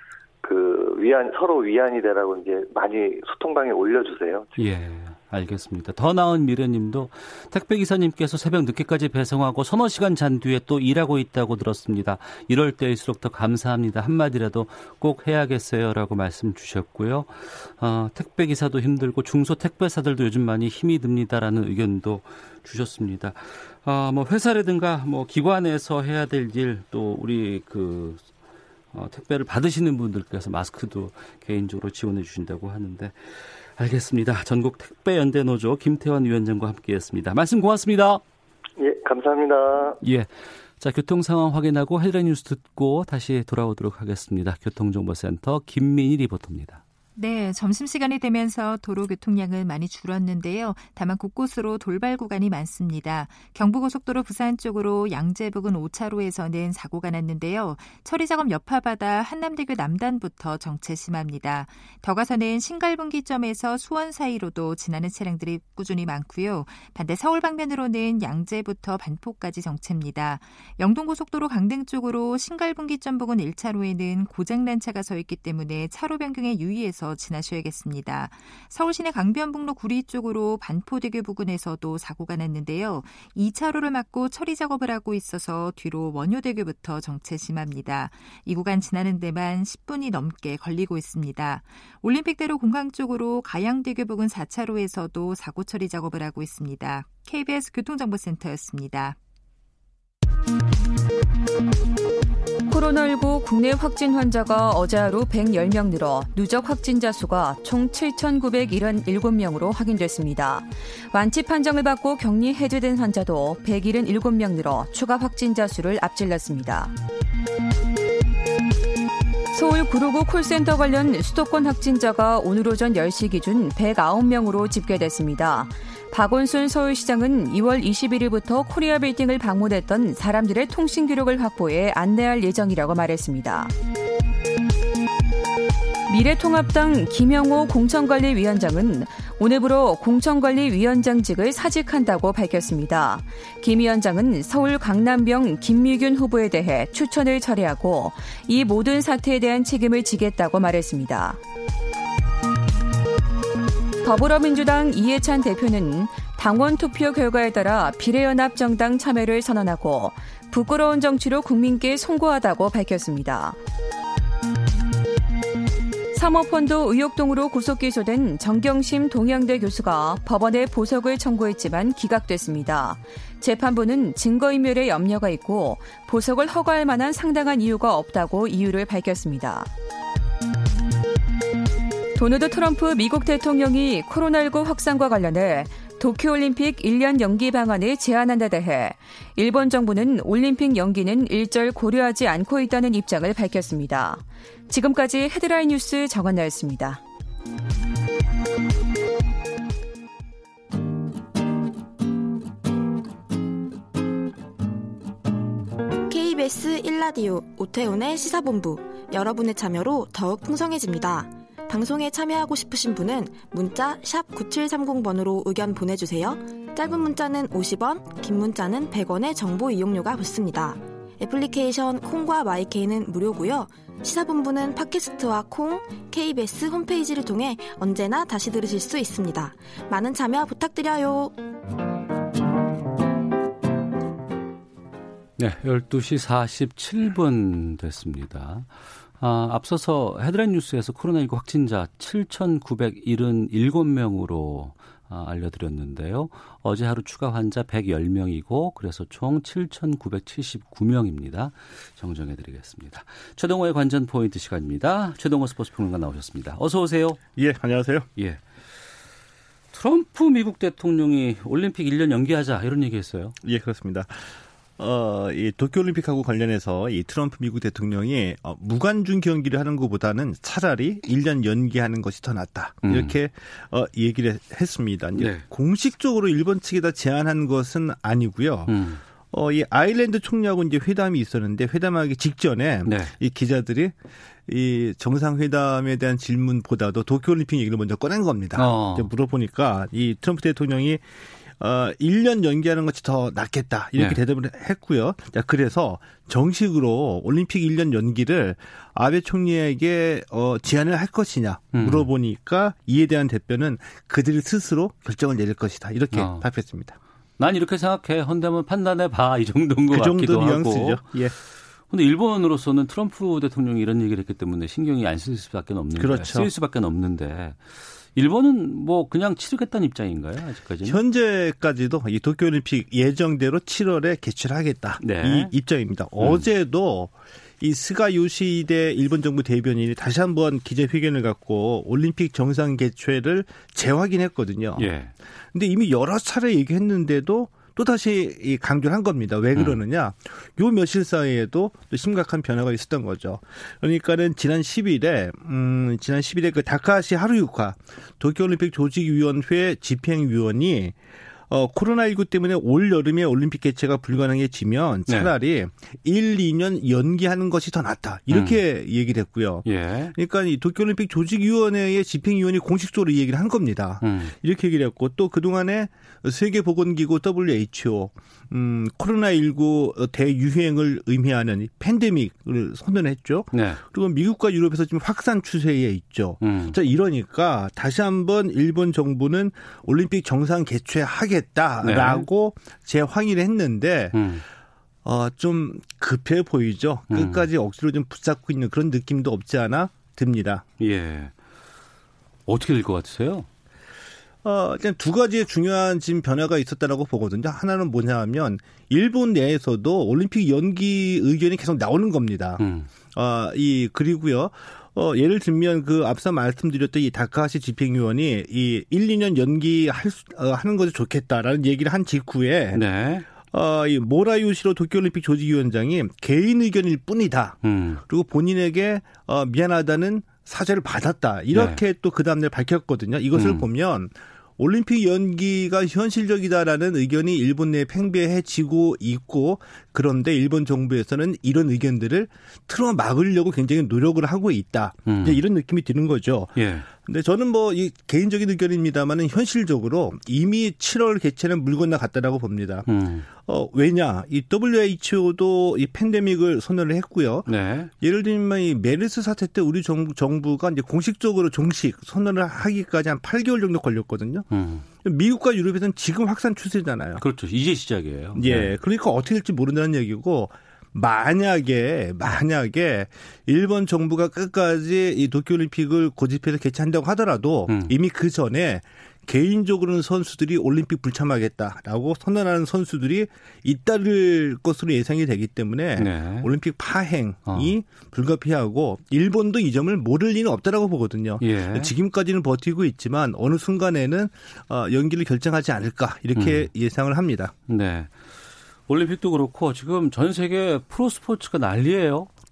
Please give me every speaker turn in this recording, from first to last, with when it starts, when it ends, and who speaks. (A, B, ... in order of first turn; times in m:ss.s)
0:00.4-0:04.6 A
0:04.6-0:28.2 B
0:28.9-0:38.2 B
0:38.8-0:40.0 A
0:40.0-0:40.3 B
0:40.8-0:46.8 B
0:47.2-1:39.2 C
1:42.7-1:56.9 D
1:59.5-2:13.7 D
2:16.1-2:31.4 D
2:34.0-2:43.6 D
2:46.1-2:59.7 D
3:02.2-3:17.0 D
3:26.1-3:51.4 E
3:55.4-3:58.7 B
3:59.2-4:17.2 B
4:17.4-4:18.1 F
4:19.7-4:23.4 B
4:23.4-4:38.8 F
4:32.8-4:33.2 B
4:35.2-4:35.5 B
4:38.7-4:39.0 B
4:39.3-4:44.0 F
4:42.9-4:43.1 B
4:44.5-4:51.0 F
4:48.6-4:49.1 B
4:51.6-5:07.0 F
5:01.7-5:02.1 B
5:06.1-5:06.5 B
5:07.4-5:11.2 B
5:09.9-5:11.3 F
5:11.9-5:21.0 B
5:16.0-5:16.5 F
5:20.8-5:34.9 F
5:25.0-5:25.5 B
5:26.2-5:26.5 B
5:34.8-5:35.1 B
5:35.5-5:51.0 F
5:39.5-5:39.8 B
5:51.5-6:24.4 F
5:58.3-5:58.6 B
5:59.6-6:00.2 B
6:04.0-6:04.3 B
6:13.5-6:13.8 B
6:16.4-6:16.8 B
6:21.8-6:22.3 B
6:24.1-6:24.4 B
6:25.0-6:30.6 F
6:27.1-6:27.5 B
6:30.8-6:31.3 B
6:32.5-6:33.5 B
6:34.4-6:42.6 F
6:42.6-6:42.9 B
6:43.1-6:52.8 F
6:52.7-6:53.3 B
6:53.5-6:57.6 F
6:57.6-6:58.0 B
6:58.1-7:22.9 F
7:01.5-7:01.8 B
7:03.4-7:03.7 B
7:15.1-7:15.4 B
7:16.6-7:16.9 B
7:22.9-7:23.3 B
7:23.4-7:27.5 F
7:27.5-7:27.9 B
7:28.0-7:34.5 F
7:34.5-7:34.9 B
7:35.0-7:37.2 F
7:37.2-7:38.8 B
7:38.4-8:07.5 F
7:47.7-7:48.0 B
7:56.0-7:56.5 B
7:57.5-7:57.7 B
8:01.4-8:01.9 B
8:06.4-8:06.7 B
8:07.7-8:08.1 B
8:08.9-8:12.3 B